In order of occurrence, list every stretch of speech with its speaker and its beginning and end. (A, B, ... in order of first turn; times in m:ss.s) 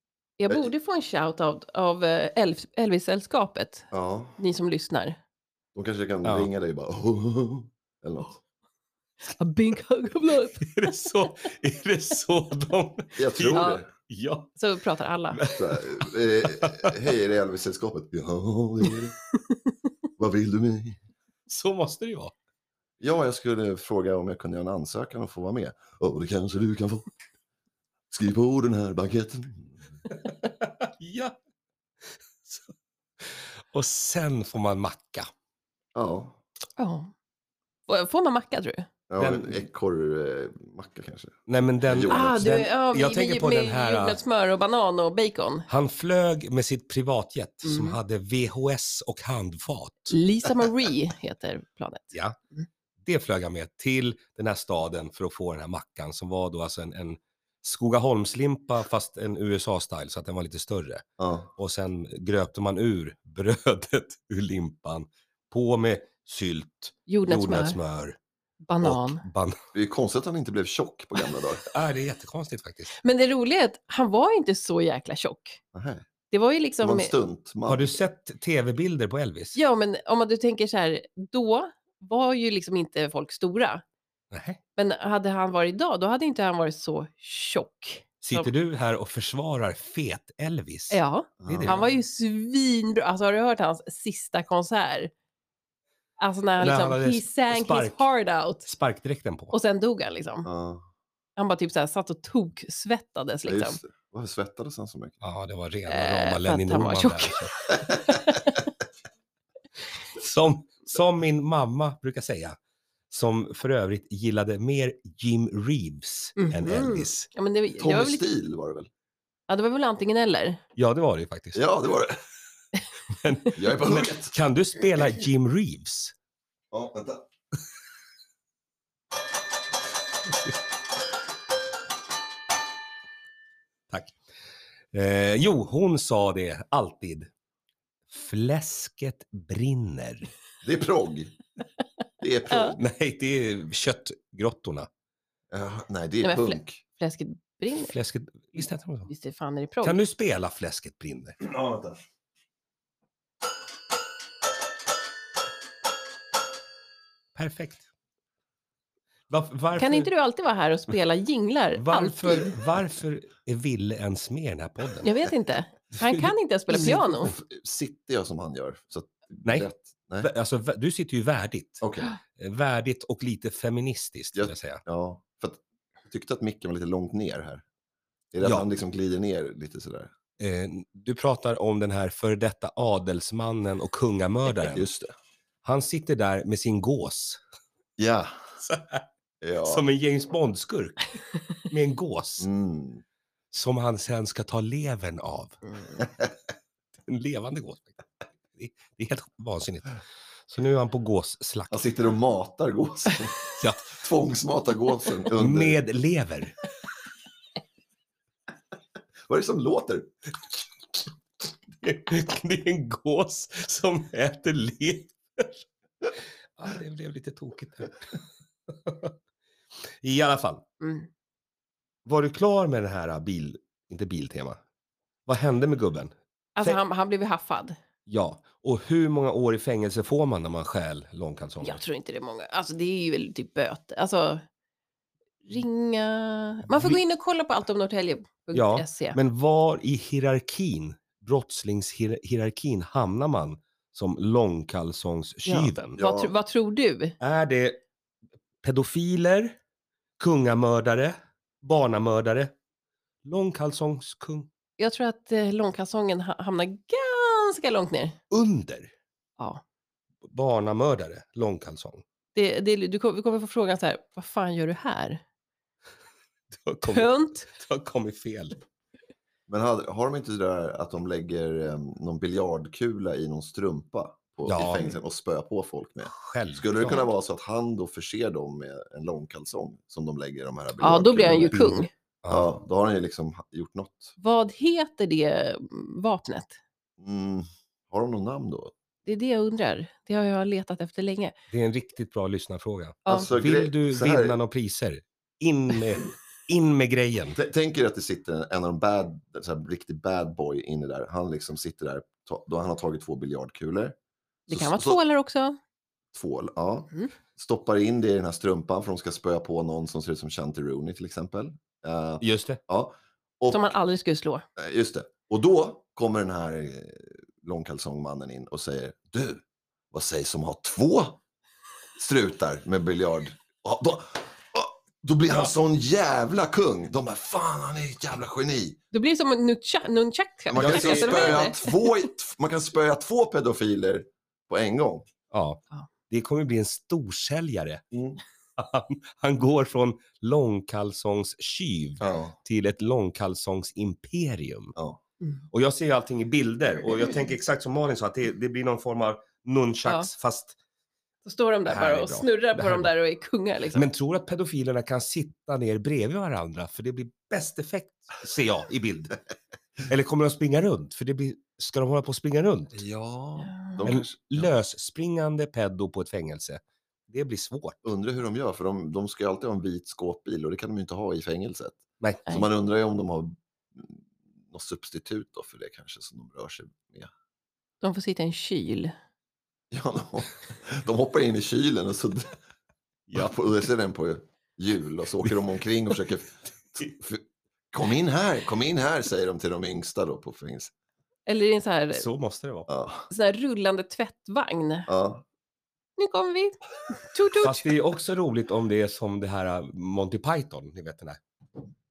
0:00.4-0:05.2 A
0:03.9-0:04.4 B
0:05.7-0:08.4 B
0:06.2-0:06.5 C
0:09.3-0:11.3 A
0:10.6-0:14.5 C
0:13.1-0:13.9 B
0:13.5-0:13.8 A
0:14.6-0:15.5 A
0:15.3-0:17.0 C
0:15.5-0:19.2 B
0:20.2-0:21.0 B
0:21.5-0:22.3 C
0:23.0-0:27.1 B
0:28.1-0:30.0 B
0:30.1-0:31.4 C
0:32.4-0:35.3 C
0:35.9-0:36.4 B
0:36.8-0:37.1 A
0:37.9-0:38.9 A
0:39.1-0:42.5 B
0:39.2-0:39.6 C
0:41.5-0:44.2 C
0:42.1-0:45.7 A
0:45.7-0:50.1 C
0:47.6-0:48.0 A
0:50.1-0:52.6 A
0:53.0-1:01.0 C
1:01.2-1:01.5 B
1:01.6-1:08.2 C
1:07.1-1:07.8 A
1:08.6-1:09.2 A
1:08.8-1:09.6 C
1:09.7-1:11.6 B
1:11.7-1:12.9 C
1:13.0-1:15.6 A
1:15.7-1:16.0 B
1:16.3-1:17.1 A
1:16.8-1:18.0 B
1:17.7-1:19.6 C
1:19.6-1:23.8 A
1:24.3-1:24.6 C
1:24.8-1:28.5 A
1:28.2-1:31.8 C
1:30.9-1:35.1 A
1:31.4-1:31.8 B
1:36.2-1:38.7 A
1:36.6-1:38.0 C
1:38.6-1:39.5 C
1:39.5-1:40.5 A
1:40.4-1:40.9 B
1:41.4-1:43.8 A
1:43.4-1:45.2 B
1:45.2-1:47.6 C
1:45.9-1:48.7 A
1:50.1-1:52.6 C
1:53.1-1:57.3 C
1:56.4-1:58.2 A
1:57.8-1:58.9 B
1:59.5-2:00.6 A
2:00.8-2:01.6 C
2:01.5-2:02.2 B
2:03.1-2:06.1 C
2:03.5-2:04.3 B
2:06.7-2:07.2 B
2:13.9-2:14.2 C
2:14.9-2:17.3 C
2:18.1-2:20.3 C
2:20.6-2:21.4 B
2:22.2-2:22.8 B
2:22.8-2:24.9 C
2:25.5-2:26.8 B
2:26.2-2:27.9 A
2:27.7-2:29.1 C
2:29.1-2:30.0 A
2:29.8-2:31.4 C
2:31.4-2:32.0 B
2:37.3-2:37.8 C
2:39.3-2:40.1 C
2:39.8-2:42.6 A
2:41.7-2:45.1 C
2:45.0-2:47.3 A
2:45.9-2:47.0 C
2:46.9-2:50.3 B
2:50.2-2:51.8 C
2:51.8-2:52.2 B
2:52.3-2:54.8 C
2:54.3-2:57.6 B
2:58.3-3:00.1 B
3:00.4-3:04.8 C
3:04.5-3:05.1 B
3:05.6-3:07.4 C
3:08.0-3:08.5 B
3:08.6-3:09.0 C
3:09.4-3:09.8 B
3:09.6-3:11.0 C
3:11.6-3:12.5 C
3:12.4-3:13.0 B
3:13.5-3:15.6 C
3:17.0-3:18.0 C
3:18.5-3:21.8 C
3:21.7-3:23.4 B
3:23.5-3:23.9 C
3:23.9-3:25.8 B
3:25.3-3:26.6 C
3:29.3-3:30.1 B
3:31.8-3:39.1 C
3:40.0-3:40.6 C
3:40.8-3:41.1 A
3:42.0-3:44.6 C
3:45.2-3:46.8 C
3:46.6-3:47.8 A
3:48.1-3:51.8 C
3:51.6-3:54.4 A
3:55.4-3:59.2 A
3:56.7-3:57.0 C
3:58.5-4:06.0 C
4:05.4-4:07.2 A
4:06.0-4:06.3 B
4:07.2-4:07.8 C
4:08.6-4:09.6 C
4:10.2-4:12.5 C
4:13.2-4:14.5 C
4:14.8-4:18.2 A
4:18.3-4:18.9 C
4:20.2-4:22.0 C
4:22.3-4:25.2 A
4:26.5-4:28.6 C
4:26.9-4:27.5 A
4:29.5-4:44.2 B
4:34.4-4:34.9 C
4:36.1-4:37.0 C
4:40.8-4:41.9 A
4:41.5-4:42.5 C
4:44.2-4:46.6 A
4:47.0-4:48.7 B
4:49.0-4:51.3 A
4:51.5-4:57.4 C
4:53.1-4:54.4 B
4:57.3-5:03.9 B
5:04.5-5:05.6 A
5:04.5-5:05.0 B
5:06.1-5:13.7 B
5:12.2-5:12.6 C
5:13.5-5:14.4 A
5:14.6-5:21.2 B
5:22.0-5:28.8 B
5:28.9-5:31.9 A
5:30.5-5:35.1 B
5:30.5-5:31.5 C
5:35.3-5:37.8 C
5:37.9-5:38.2 B
5:38.6-5:44.7 C
5:42.0-5:42.4 B
5:45.5-5:50.5 C
5:49.8-5:50.1 A
5:51.2-5:53.8 A
5:51.6-5:52.9 C
5:53.7-5:59.2 C
5:59.9-6:02.8 C
6:02.7-6:04.5 B
6:03.4-6:03.8 A
6:03.8-6:07.8 C
6:07.8-6:17.1 B
6:17.8-6:18.9 A
6:19.7-6:22.4 B
6:23.1-6:23.3 C
6:23.1-6:30.7 B
6:31.2-6:32.0 A
6:31.9-6:32.7 C
6:32.7-6:33.1 B
6:33.1-6:34.9 A
6:34.9-6:35.2 B
6:36.0-6:37.6 A
6:37.4-6:41.2 C